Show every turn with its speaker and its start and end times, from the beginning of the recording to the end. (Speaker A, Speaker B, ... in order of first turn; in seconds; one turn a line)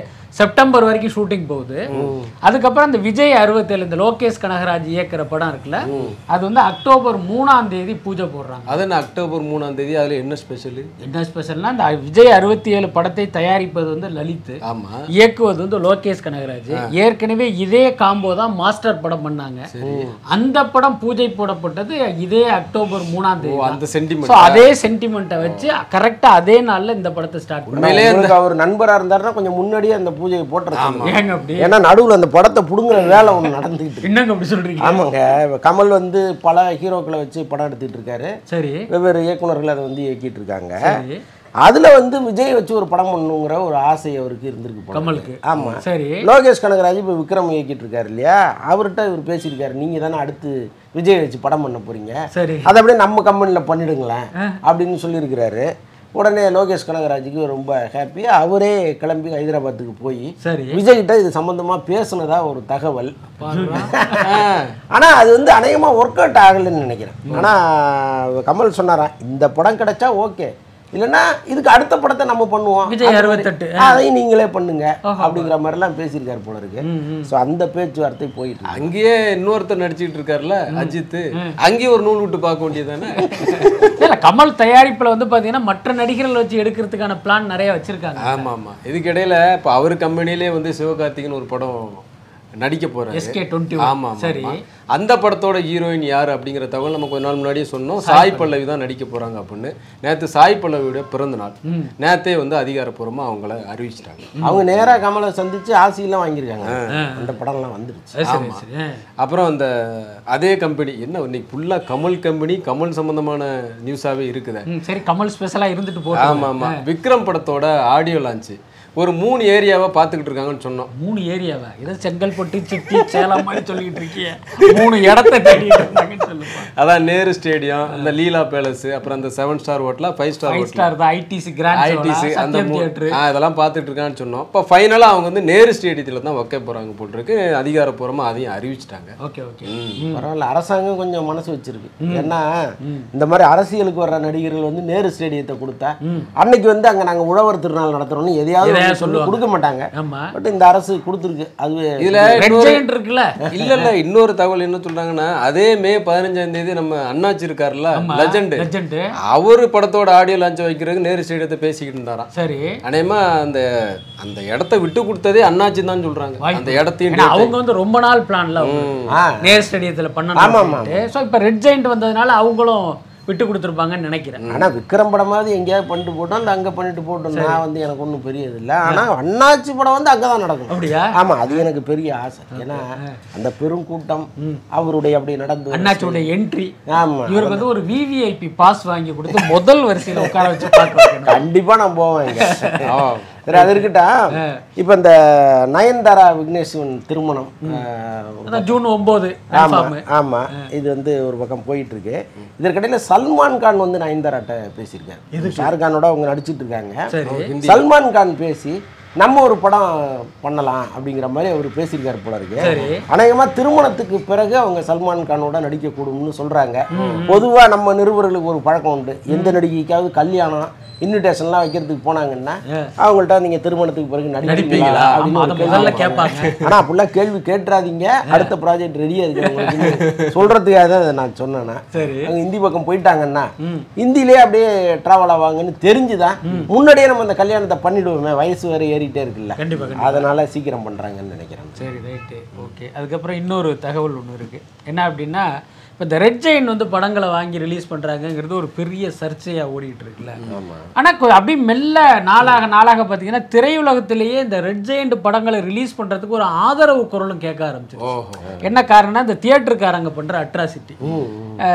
Speaker A: 0.4-1.9
Speaker B: 1.9-2.2
Speaker C: 1.9-2.3
Speaker A: 2.5-8.8
Speaker B: 5.8-6.2
Speaker C: 5.9-6.1
Speaker B: 8.7-10.9
Speaker A: 11.0-14.6
Speaker B: 14.7-15.0
Speaker A: 15.2-19.6
Speaker B: 19.7-20.1
Speaker C: 19.8-20.1
Speaker A: 20.3-28.0
Speaker B: 23.4-24.7
Speaker B: 25.4-25.7
Speaker B: 27.7-28.4
Speaker C: 27.7-34.1
Speaker B: 30.7-31.2
Speaker A: 31.0-31.7
Speaker A: 34.0-35.0
Speaker C: 34.8-38.3
Speaker A: 38.5-38.9
Speaker C: 38.9-40.8
Speaker A: 40.8-41.2
Speaker C: 41.6-64.3
Speaker A: 44.9-46.3
Speaker A: 52.3-52.7
Speaker A: 60.4-60.8
Speaker A: 63.4-64.2
Speaker B: 64.2-64.7
Speaker C: 64.9-78.8
Speaker A: 72.8-74.0
Speaker A: 75.0-75.5
Speaker A: 76.8-77.3
Speaker B: 78.7-83.9
Speaker A: 80.7-81.5
Speaker A: 83.2-88.5
Speaker B: 88.2-92.0
Speaker B: 92.6-105.0
Speaker A: 93.1-94.5
Speaker A: 98.0-98.5
Speaker A: 101.7-101.9
Speaker C: 104.4-108.1
Speaker A: 106.9-107.4
Speaker A: 108.2-109.0
Speaker B: 108.2-108.6
Speaker B: 109.2-109.7
Speaker B: 110.3-114.7
Speaker A: 114.7-116.8
Speaker B: 116.1-120.9
Speaker A: 120.9-126.7
Speaker B: 122.9-124.0
Speaker B: 124.8-125.9
Speaker B: 126.7-130.8
Speaker A: 130.4-133.1
Speaker B: 131.7-139.1
Speaker A: 139.2-140.2
Speaker B: 139.7-140.0
Speaker C: 140.1-142.6
Speaker A: 142.0-142.3
Speaker A: 142.8-143.1
Speaker C: 143.2-152.4
Speaker A: 146.0-146.3
Speaker A: 148.6-149.4
Speaker A: 149.9-150.3
Speaker B: 152.0-152.8
Speaker A: 152.4-153.3
Speaker B: 153.5-158.7
Speaker A: 157.9-159.1
Speaker B: 159.3-162.3
Speaker A: 162.3-162.7
Speaker B: 162.8-163.6
Speaker B: 164.2-167.5
Speaker A: 166.4-174.4
Speaker B: 168.6-169.1
Speaker C: 169.1-169.4
Speaker C: 170.3-171.0
Speaker B: 174.4-174.7
Speaker C: 174.5-186.3
Speaker A: 177.3-177.6
Speaker A: 180.7-181.7
Speaker A: 182.5-183.2
Speaker A: 185.7-186.7
Speaker C: 186.9-187.7
Speaker A: 187.3-191.4
Speaker C: 189.3-192.9
Speaker A: 192.3-192.8
Speaker B: 192.8-193.7
Speaker C: 193.4-194.2
Speaker A: 194.3-194.6
Speaker C: 194.8-198.8
Speaker A: 198.5-200.7
Speaker C: 199.5-207.0
Speaker A: 205.3-205.7
Speaker A: 207.1-207.5
Speaker B: 207.2-207.8
Speaker C: 207.6-241.8
Speaker A: 212.6-213.0
Speaker B: 212.6-212.9
Speaker A: 216.9-217.4
Speaker B: 216.9-217.2
Speaker A: 219.3-219.6
Speaker A: 224.4-226.5
Speaker B: 224.5-226.7
Speaker A: 228.3-228.5
Speaker A: 229.4-229.9
Speaker B: 229.8-230.3
Speaker A: 231.9-232.3
Speaker A: 233.6-233.9
Speaker A: 239.6-240.3
Speaker A: 241.8-245.4
Speaker A: 246.0-250.4
Speaker C: 250.5-250.9
Speaker A: 250.9-258.1
Speaker B: 258.0-258.5
Speaker A: 258.6-261.0
Speaker C: 261.0-261.6